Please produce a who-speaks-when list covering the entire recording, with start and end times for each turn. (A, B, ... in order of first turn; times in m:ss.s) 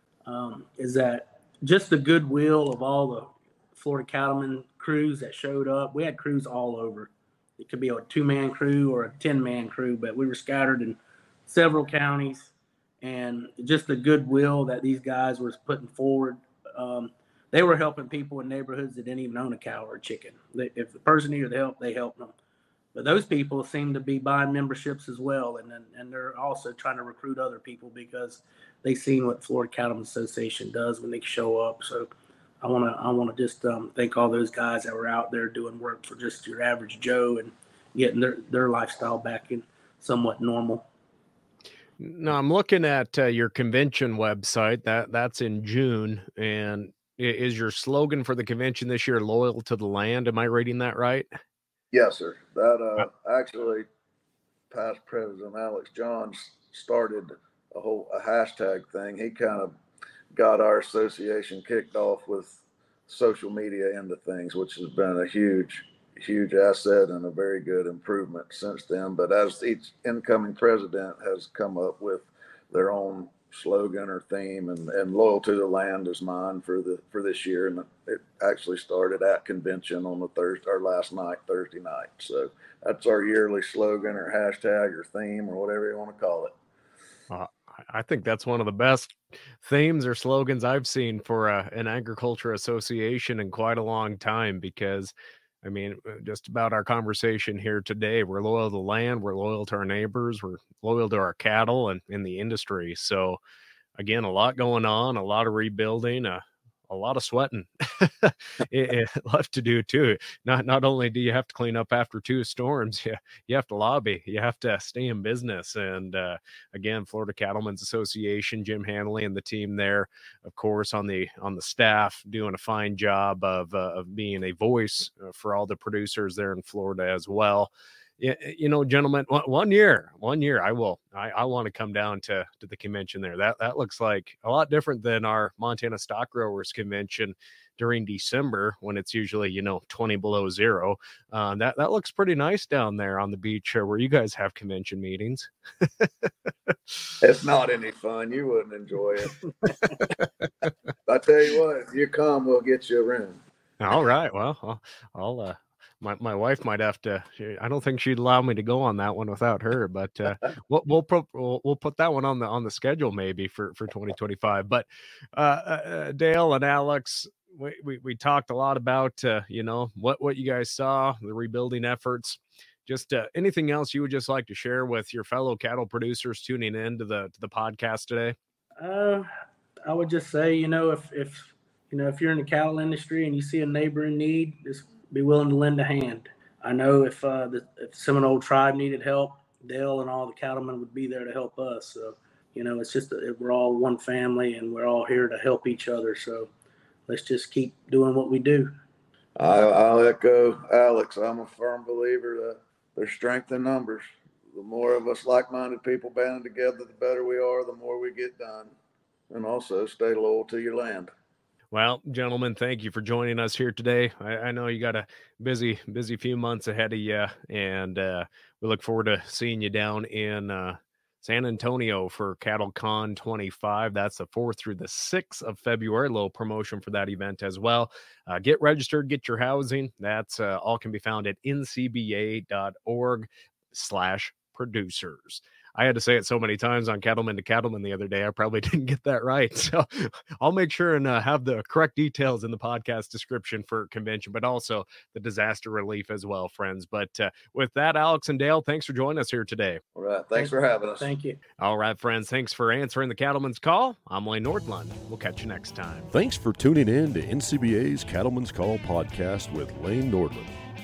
0:00.3-0:22.3 A
0:22.9-0:32.1 A
0:32.6-0:40.8 A
0:42.0-0:51.3 B
0:51.9-0:53.8 C
0:54.7-0:59.7 C
1:00.3-1:26.5 C
1:27.3-1:43.4 B
1:44.0-2:27.1 B
2:27.2-2:29.4 C
2:31.1-2:33.4 C
2:33.8-2:58.4 B
2:58.8-2:59.3 A
2:59.8-3:16.5 A
3:17.1-3:18.7 A
3:19.4-3:28.7 C
3:29.3-3:31.1 C
3:31.7-4:09.8 B
4:09.9-4:11.1 C
4:10.3-4:11.4 A
4:11.6-4:16.1 B
4:16.1-4:20.5 D